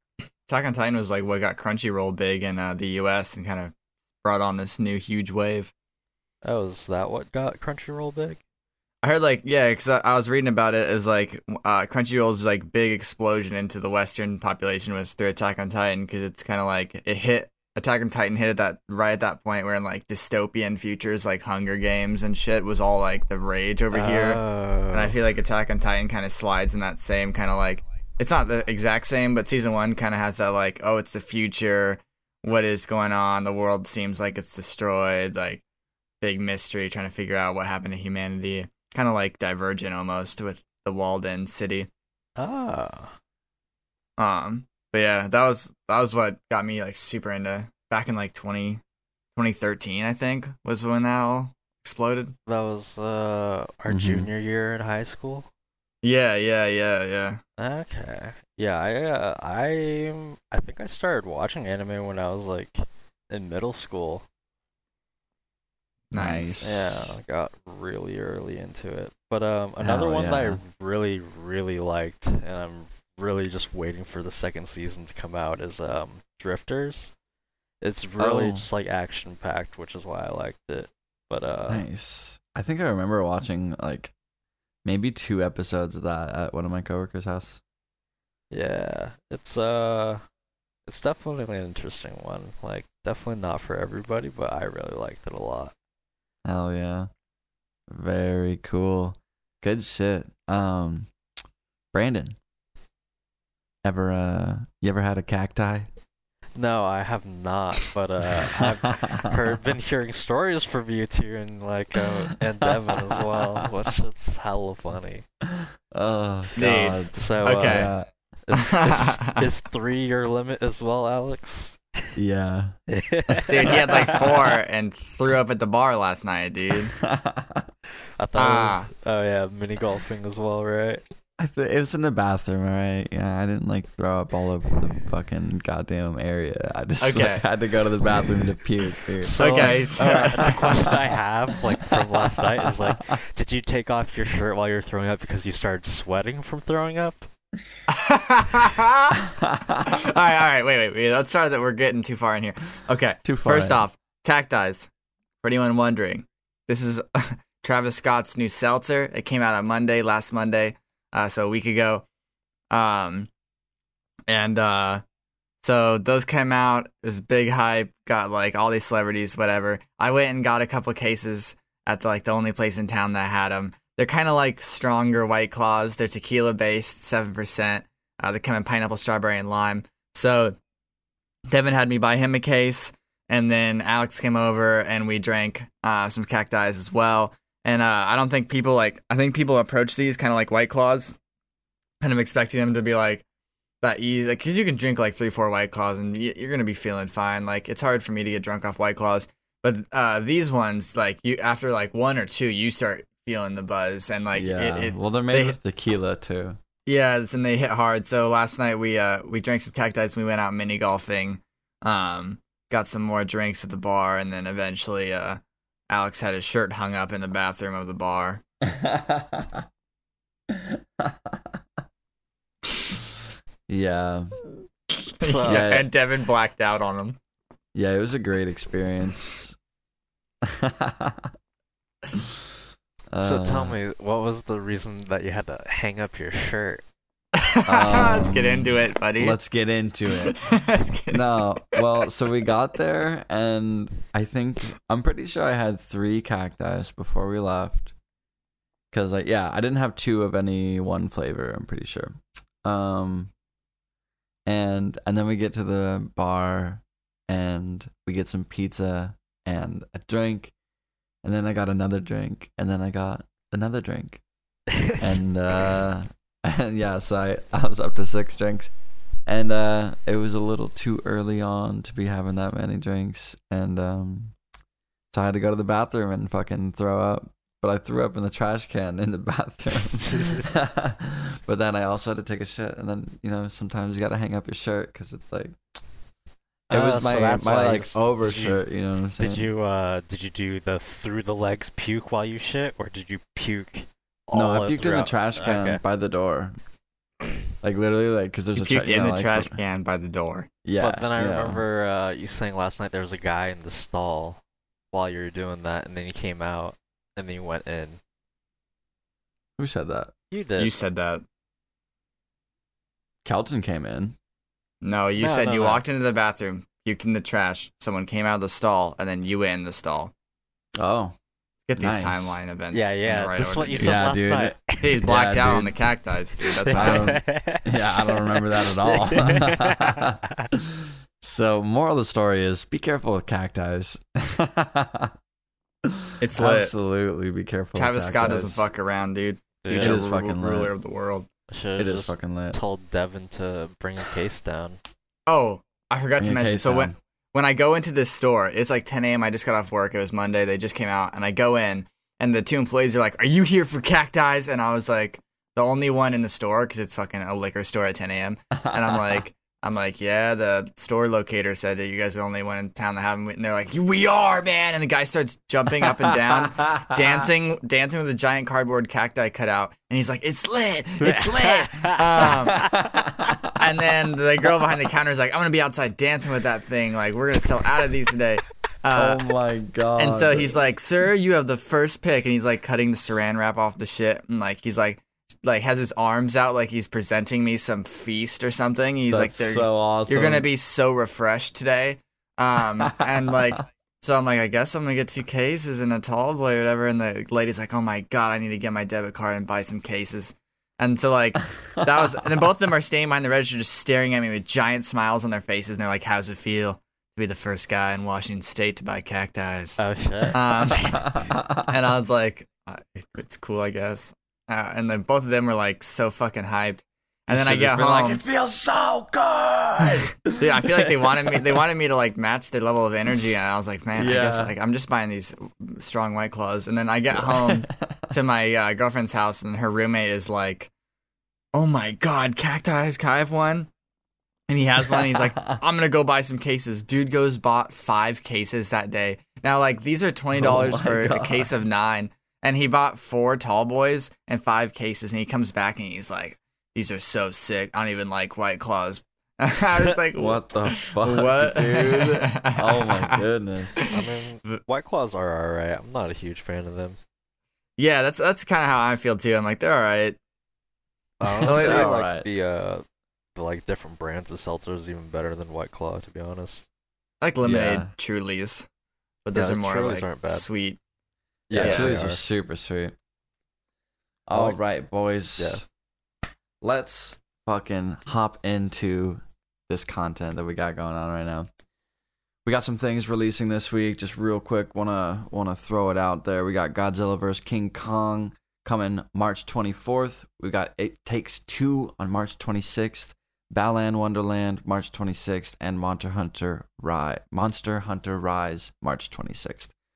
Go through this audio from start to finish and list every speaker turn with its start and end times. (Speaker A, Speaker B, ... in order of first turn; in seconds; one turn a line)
Speaker A: 0.5-5.7
Speaker B: 6.4-8.4
Speaker A: 9.0-35.6
Speaker B: 23.9-25.1
Speaker A: 36.2-41.9
Speaker B: 42.4-43.1
Speaker A: 44.2-48.8
Speaker A: 49.4-52.3
Speaker B: 52.5-55.5
Speaker C: 53.9-54.3
Speaker A: 56.0-57.4
Speaker B: 57.6-64.2
Speaker A: 66.1-66.6
Speaker C: 66.1-67.2
Speaker B: 66.6-77.1
Speaker C: 69.8-70.6
Speaker B: 77.8-81.9
Speaker C: 78.2-78.7
Speaker C: 81.7-84.1
Speaker C: 84.8-87.6
Speaker B: 88.5-90.2
Speaker B: 90.9-95.7
Speaker C: 96.4-97.1
Speaker C: 97.9-101.1
Speaker C: 101.9-102.4
Speaker C: 103.8-105.9
Speaker B: 106.5-115.2
Speaker C: 108.3-109.3
Speaker C: 113.1-113.6
Speaker C: 115.5-118.1
Speaker A: 116.6-117.9
Speaker B: 117.1-117.9
Speaker B: 118.5-121.8
Speaker A: 118.6-119.4
Speaker C: 122.2-122.8
Speaker B: 122.9-124.5
Speaker C: 123.3-124.2
Speaker A: 123.5-127.0
Speaker C: 126.9-127.7
Speaker B: 128.2-131.0
Speaker A: 128.4-128.9
Speaker C: 131.4-140.9
Speaker A: 137.0-137.4
Speaker B: 139.2-147.3
Speaker A: 139.3-140.6
Speaker C: 141.8-142.9
Speaker A: 147.9-149.2
Speaker C: 149.3-150.0
Speaker A: 149.8-154.9
Speaker C: 153.2-153.8
Speaker A: 155.4-162.0
Speaker A: 162.7-163.3
Speaker A: 164.3-165.0
Speaker A: 165.6-180.6
Speaker A: 181.5-191.2
Speaker A: 192.0-193.2
Speaker A: 193.8-205.6
Speaker C: 204.3-206.6
Speaker A: 206.9-218.4
Speaker C: 218.6-219.6
Speaker C: 220.5-221.4
Speaker C: 223.7-224.3
Speaker A: 225.1-227.2
Speaker B: 225.2-225.7
Speaker C: 225.4-225.9
Speaker C: 227.7-229.6
Speaker C: 230.4-231.3
Speaker C: 233.1-233.8
Speaker B: 233.2-236.8
Speaker A: 237.3-239.4
Speaker C: 237.7-240.4
Speaker A: 240.2-242.1
Speaker C: 241.1-247.9
Speaker C: 248.9-253.3
Speaker C: 254.4-260.5
Speaker C: 261.2-264.2
Speaker B: 264.7-265.0
Speaker C: 265.0-268.7
Speaker C: 269.2-274.4
Speaker C: 275.1-285.6
Speaker B: 280.1-280.4
Speaker B: 286.7-288.6
Speaker C: 286.7-289.5
Speaker B: 289.2-295.8
Speaker C: 294.3-296.6
Speaker C: 297.6-299.6
Speaker A: 298.6-300.5
Speaker C: 300.6-301.6
Speaker B: 300.8-308.0
Speaker C: 309.6-310.1
Speaker B: 310.3-310.7
Speaker A: 310.6-311.2
Speaker C: 313.2-314.2
Speaker A: 314.8-320.1
Speaker B: 315.2-315.8
Speaker C: 320.8-321.1
Speaker A: 321.7-324.0
Speaker C: 321.8-322.4
Speaker B: 322.7-325.0
Speaker C: 323.8-325.8
Speaker A: 324.8-327.2
Speaker B: 326.4-330.5
Speaker C: 326.7-335.1
Speaker C: 335.8-338.7
Speaker A: 336.2-336.7
Speaker A: 337.7-341.3
Speaker B: 339.6-340.0
Speaker C: 339.7-340.7
Speaker B: 341.5-344.8
Speaker C: 341.8-342.6
Speaker A: 345.3-372.7
Speaker C: 346.2-346.9
Speaker C: 358.6-359.2
Speaker C: 366.1-367.2
Speaker B: 371.1-372.8
Speaker C: 372.2-373.6
Speaker A: 373.5-379.2
Speaker C: 378.9-380.6
Speaker A: 380.0-409.8
Speaker C: 389.1-390.5
Speaker C: 392.9-393.5
Speaker B: 409.8-410.8
Speaker A: 410.3-411.1
Speaker C: 410.7-411.7
Speaker A: 411.7-418.2
Speaker C: 417.3-421.6
Speaker A: 419.8-430.7
Speaker C: 423.9-424.5
Speaker C: 427.1-428.1
Speaker A: 431.5-433.7
Speaker A: 434.5-453.2
Speaker C: 434.9-435.6
Speaker C: 440.3-441.5
Speaker C: 450.1-453.8
Speaker A: 453.8-454.6
Speaker B: 453.9-457.0
Speaker A: 457.8-460.2
Speaker B: 461.2-462.8
Speaker C: 461.2-462.3
Speaker A: 461.4-461.9
Speaker B: 463.4-466.7
Speaker A: 467.2-468.7
Speaker C: 467.4-467.9
Speaker A: 469.2-470.8
Speaker B: 469.3-470.5
Speaker B: 471.5-472.2
Speaker C: 471.5-472.9
Speaker A: 471.6-472.0
Speaker C: 474.3-475.6
Speaker B: 474.3-474.6
Speaker B: 475.4-475.6
Speaker C: 476.6-481.5
Speaker C: 482.4-499.7